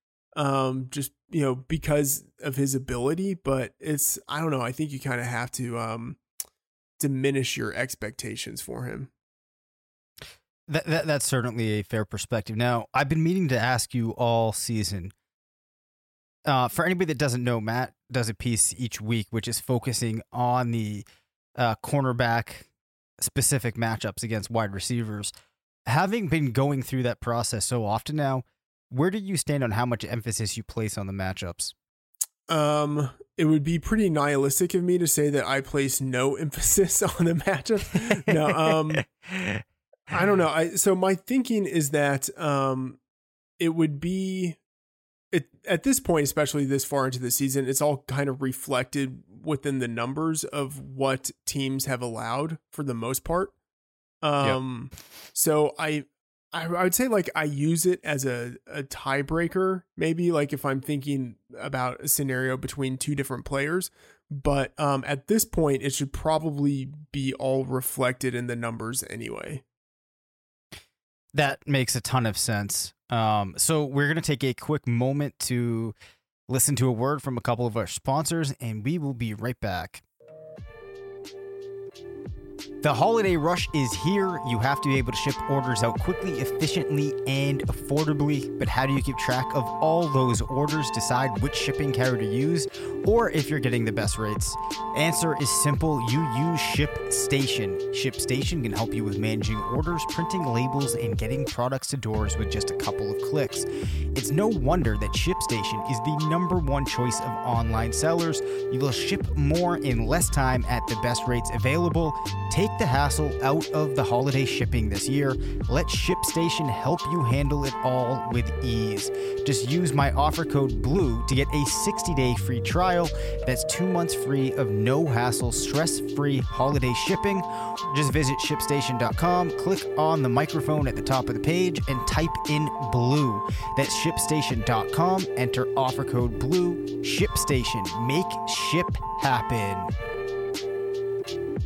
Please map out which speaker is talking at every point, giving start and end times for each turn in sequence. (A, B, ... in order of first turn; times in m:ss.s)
0:00.4-0:06.2 A
0:07.0-0:09.1 A
0:10.7-0:15.1 B
0:16.5-0:21.1 B
0:21.6-0:22.7 B
0:23.2-0:25.3 B
0:25.9-0:31.7 B
0:32.5-0:39.0 A
0:39.0-0:39.6 B
0:40.1-0:43.0 A
0:43.6-0:44.6 A
0:45.3-0:53.6 A
0:54.2-1:09.6 A
1:11.3-1:16.0 B
1:16.5-1:20.0 B
1:22.8-2:19.9 B